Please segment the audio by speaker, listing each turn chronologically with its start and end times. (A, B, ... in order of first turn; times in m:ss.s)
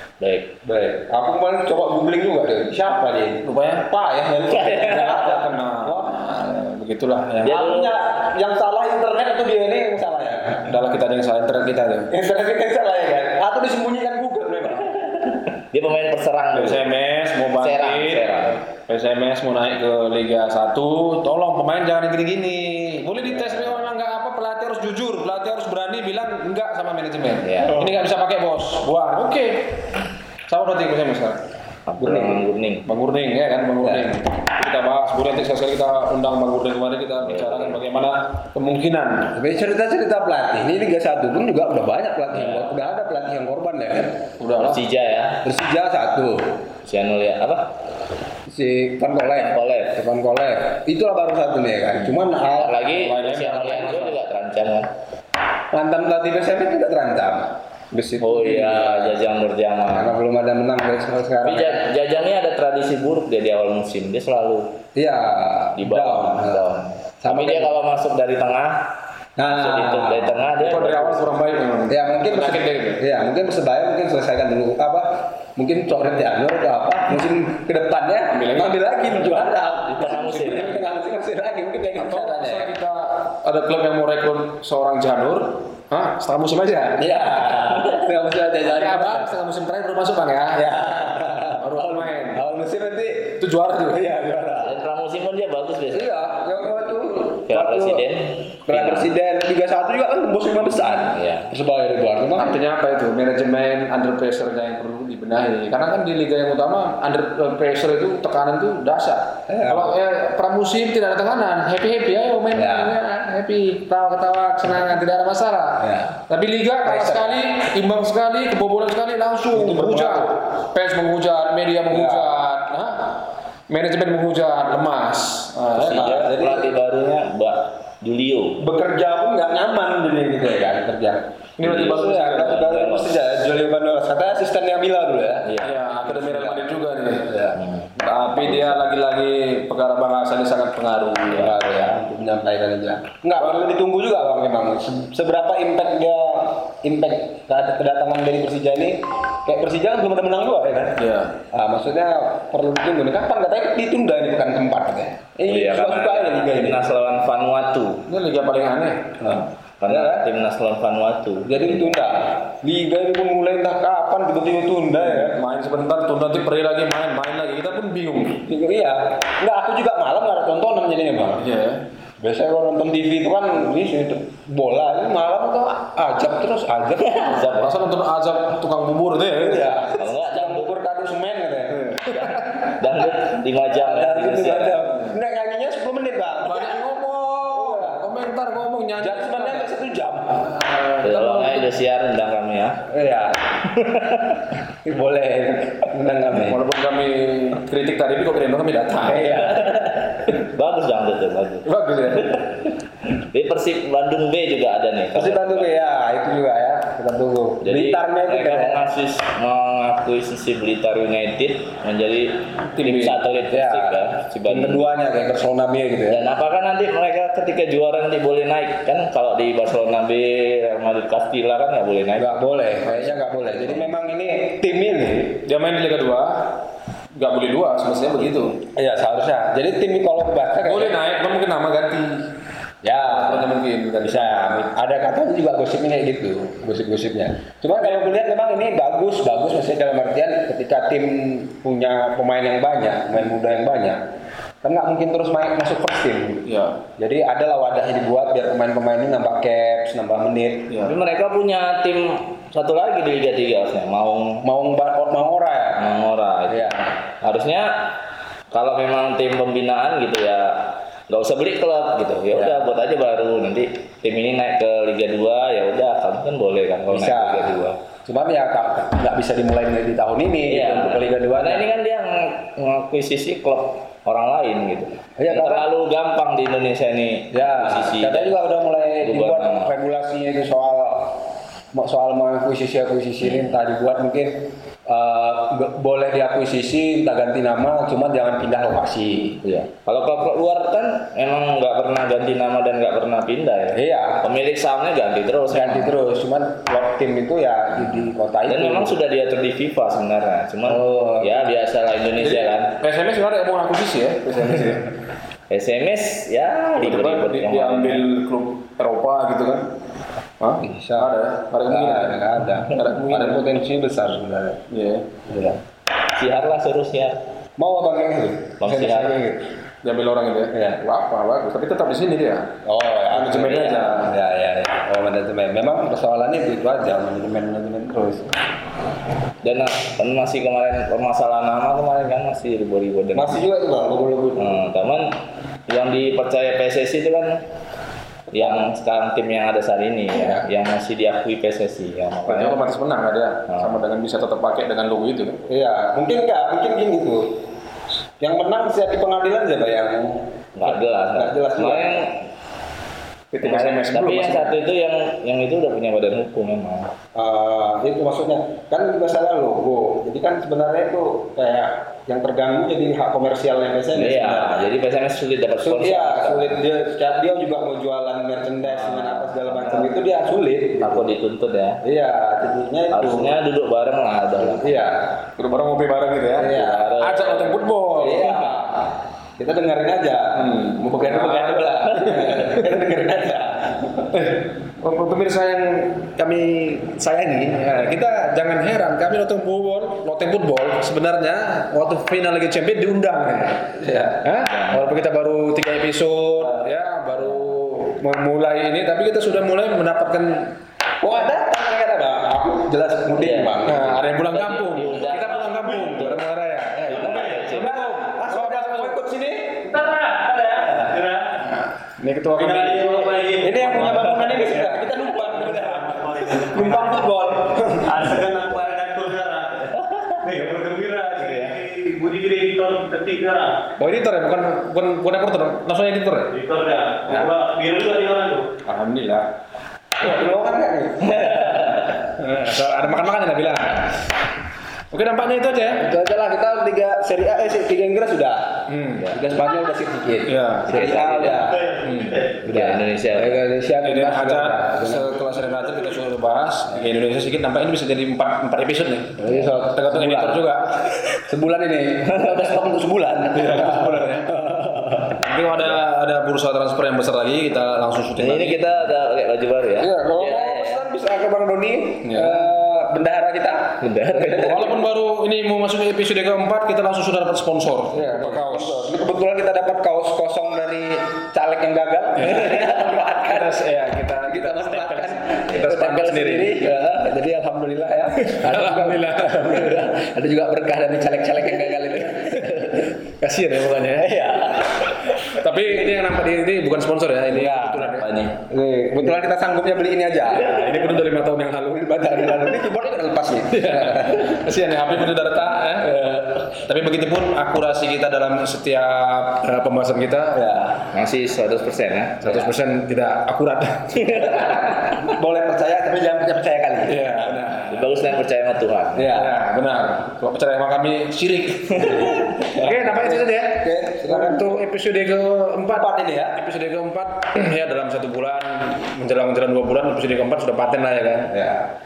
0:00.2-0:00.5 A
0:00.6-0:06.2 B
0:03.4-0:03.9 C
0:04.6-0:07.7 C
0:07.4-0:07.9 A
0:07.4-0:10.7 B
0:10.7-0:12.1 C
0:12.1-0:15.4 B
0:15.6-0:16.8 A
0:16.6-0:29.7 C
0:17.6-0:18.6 A
0:27.4-0:27.9 A
0:30.5-0:31.4 C
0:31.9-0:32.9 A
0:32.0-0:32.4 B
0:32.9-0:39.3 C
0:33.8-0:34.1 B
0:37.2-0:37.8 A
0:39.4-0:44.2 B
0:42.3-0:42.7 A
0:44.4-0:44.8 C
0:44.6-0:45.4 A
0:45.4-0:46.5 B
0:46.8-0:47.7 A
0:48.5-0:52.8 B
0:49.3-0:50.0 A
0:52.4-0:54.9 A
0:52.9-0:54.2 C
0:55.7-0:59.2 B
0:58.2-1:00.2 A
0:59.9-1:01.8 B
1:01.4-1:04.8 A
1:05.0-1:06.7 B
1:05.8-1:08.8 A
1:07.2-1:07.7 B
1:09.4-1:10.4 B
1:09.5-1:11.3 A
1:10.6-1:13.0 C
1:11.9-1:22.7 B
1:18.3-1:19.0 C
1:19.8-1:20.8 A
1:22.0-1:27.1 C
1:27.0-1:29.3 B
1:28.6-1:30.7 C
1:30.5-1:34.8 B
1:31.6-1:32.4 C
1:33.4-1:34.1 C
1:34.6-1:36.1 A
1:35.9-1:38.1 B
1:37.5-1:39.1 A
1:38.7-1:42.6 B
1:41.1-1:41.5 A
1:42.4-2:03.1 C
1:49.5-1:49.9 B
1:52.6-1:53.0 B
1:55.8-1:56.2 B
1:56.8-1:57.4 B
1:59.5-2:00.3 B
2:01.9-2:02.4 B
2:03.7-2:06.2 C
2:05.8-2:08.6 A
2:05.8-2:06.7 B
2:08.6-2:16.7 B
2:11.6-2:12.7 C
2:11.6-2:13.2 A
2:15.4-2:15.8 A
2:15.6-2:17.3 C
2:17.2-2:17.6 B
2:17.6-2:18.5 A
2:18.0-2:21.6 C
2:21.3-2:31.0 B
2:31.0-2:31.3 C
2:31.5-2:36.8 B
2:35.5-2:38.0 A
2:38.1-2:39.1 C
2:39.2-2:40.3 B
2:39.8-2:42.0 A
2:41.4-2:45.4 B
2:45.0-2:48.4 C
2:48.4-2:51.5 B
2:51.4-2:51.8 C
2:52.2-2:57.5 B
2:57.1-2:57.8 A
2:57.4-2:59.7 C
2:59.4-3:02.4 B
3:00.0-3:00.7 A
3:01.8-3:02.5 C
3:02.7-3:04.9 A
3:03.6-3:06.8 B
3:06.4-3:09.7 C
3:07.5-3:08.0 B
3:09.0-3:10.6 B
3:10.5-3:11.7 C
3:11.0-3:12.8 A
3:12.9-3:13.6 B
3:13.7-3:14.4 A
3:14.7-3:16.6 B
3:16.4-3:19.5 C
3:19.0-3:20.1 B
3:19.5-3:21.7 A
3:21.6-3:22.4 C
3:23.0-3:25.7 A
3:25.1-3:28.9 B
3:27.6-3:34.9 A
3:32.8-3:33.2 C
3:33.5-3:36.3 B
3:36.1-3:42.4 A
3:42.2-3:45.4 B
3:42.9-3:43.8 A
3:45.4-3:46.5 C
3:47.2-3:48.6 C
3:48.7-3:51.0 B
3:50.6-3:52.3 C
3:52.8-4:04.0 B
3:53.1-3:54.7 C
3:57.8-3:58.1 C
4:04.6-4:06.5 B
4:06.5-4:06.8 C
4:07.0-4:10.7 B
4:10.7-4:11.0 C
4:10.8-4:14.4 A
4:14.4-4:16.9 B
4:15.8-4:17.9 A
4:18.5-4:27.8 A
4:22.3-4:22.7 B
4:26.9-4:31.7 B
4:30.5-4:38.4 A
4:35.2-4:35.7 B
4:37.3-4:41.2 B
4:39.0-4:39.7 A
4:41.7-4:49.4 B
4:43.2-4:43.6 A
4:49.4-4:55.9 A
4:53.7-4:54.2 B
4:55.5-4:59.0 B
4:58.5-5:02.8 A
5:00.7-5:01.5 B
5:02.2-5:04.9 C
5:05.5-5:08.0 A
5:06.8-5:09.6 C
5:10.4-5:13.5 C
5:10.6-5:14.6 B
5:14.7-5:15.1 C
5:15.3-5:15.6 B
5:16.1-5:17.2 A
5:17.6-5:19.5 B
5:18.6-5:19.1 A
5:19.8-5:22.5 C
5:20.5-5:20.8 B
5:22.6-5:28.3 B
5:23.1-5:24.1 C
5:23.5-5:23.8 A
5:29.4-5:33.4 A
5:33.1-5:34.5 B
5:34.4-5:35.1 A
5:35.7-5:37.4 A
5:38.3-5:42.7 A
5:38.3-5:38.6 B
5:40.1-5:40.4 B
5:42.3-5:45.4 C
5:43.5-5:43.8 A
5:45.5-5:47.3 B
5:48.2-5:50.2 B
5:50.6-5:52.2 A
5:51.2-5:52.0 B
5:53.3-5:54.5 C
5:53.4-5:56.9 A
5:57.2-6:04.7 B
6:04.0-6:06.6 A
6:05.6-6:11.1 B
6:08.7-6:09.9 A
6:10.8-6:11.8 A
6:11.8-6:13.4 B
6:12.9-6:14.9 A
6:14.4-6:15.0 B
6:15.4-6:18.3 C
6:16.4-6:16.9 B
6:16.4-6:17.6 A
6:18.0-6:24.1 B
6:18.2-6:18.5 A
6:20.4-6:22.7 C
6:24.1-6:40.6 C
6:33.8-6:34.2 B
6:34.5-6:34.9 A
6:41.0-6:44.0 B
6:43.2-6:43.6 A
6:43.6-6:49.0 C
6:44.3-6:46.2 A
6:46.9-6:47.8 A
6:47.5-6:49.7 B
6:49.7-6:51.4 D
6:51.4-6:54.9 C
6:52.3-6:54.1 D
6:53.4-6:57.7 B
6:55.5-6:57.2 D
6:57.7-6:59.7 D
6:59.8-7:00.3 A
7:00.2-7:03.6 D
7:01.2-7:01.5 A
7:03.8-7:06.3 C
7:06.3-7:08.5 D
7:08.7-7:09.2 C
7:10.0-7:10.4 C
7:10.0-7:11.9 B
7:11.2-7:11.8 A
7:12.2-7:13.9 C
7:14.9-7:15.9 C
7:15.6-7:21.7 B
7:18.7-7:19.2 C
7:20.3-7:21.1 C
7:20.7-7:21.5 A
7:21.6-7:22.2 D
7:21.8-7:22.3 C
7:22.4-7:25.1 B
7:22.5-7:23.4 A
7:23.8-7:31.1 C
7:29.2-7:30.5 B
7:29.3-7:29.5 A
7:31.3-7:35.2 B
7:33.3-7:34.3 C
7:35.2-7:38.8 C
7:38.2-7:40.8 A
7:39.8-7:44.8 B
7:42.0-7:42.4 C
7:43.8-7:44.7 A
7:44.3-7:48.9 C
7:47.9-8:03.0 B
7:52.2-7:56.7 C
7:58.2-7:59.9 C
8:02.2-8:04.2 C
8:04.0-8:05.2 B
8:05.1-8:08.1 C
8:07.3-8:07.9 B
8:07.9-8:08.4 A
8:08.5-8:10.8 B
8:10.2-8:12.5 C
8:11.8-8:14.3 B
8:13.5-8:20.4 C
8:15.8-8:16.5 B
8:20.4-8:20.8 B
8:20.9-8:22.5 A
8:22.2-8:24.8 C
8:24.0-8:24.3 A
8:24.4-8:27.3 B
8:26.9-8:27.8 C
8:27.6-8:29.1 A
8:29.0-8:29.4 B
8:29.1-8:41.3 C
8:32.0-8:34.6 B
8:35.7-8:36.4 B
8:41.3-8:41.7 B